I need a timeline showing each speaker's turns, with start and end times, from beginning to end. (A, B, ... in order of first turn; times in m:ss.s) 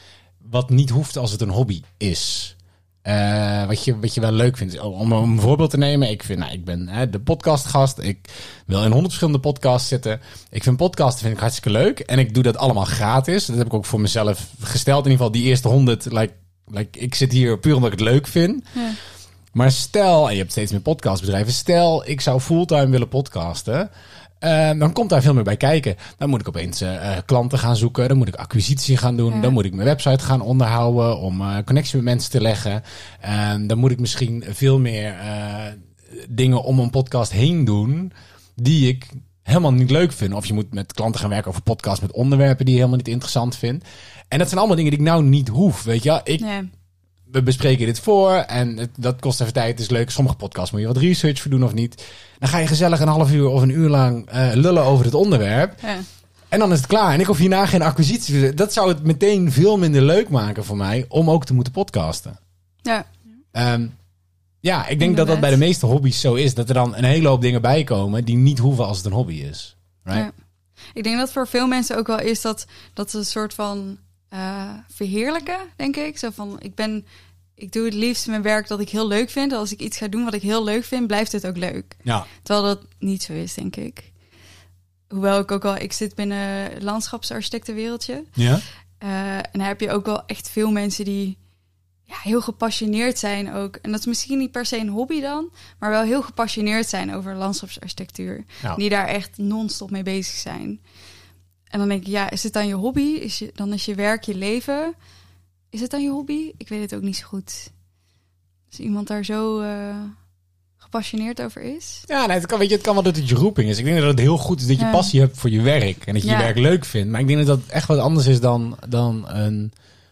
0:00.4-0:18.9 A
0:18.8-0:19.0 B
0:19.5-0:23.9 A
0:24.4-0:46.5 A
0:46.4-0:46.7 B
0:47.3-1:02.4 A
0:55.8-0:56.1 B
1:03.5-1:04.0 A
1:04.6-1:10.3 A
1:05.0-1:05.6 B
1:10.1-1:10.4 B
1:10.9-1:17.0 B
1:17.6-1:24.2 B
1:25.1-1:28.5 B
1:28.4-1:28.6 A
1:29.0-1:31.4 B
1:32.1-1:40.8 B
1:41.7-1:45.0 B
1:45.7-1:47.8 B
1:48.7-1:52.1 B
1:52.1-1:59.7 A
1:54.8-1:55.1 B
1:56.2-1:56.5 B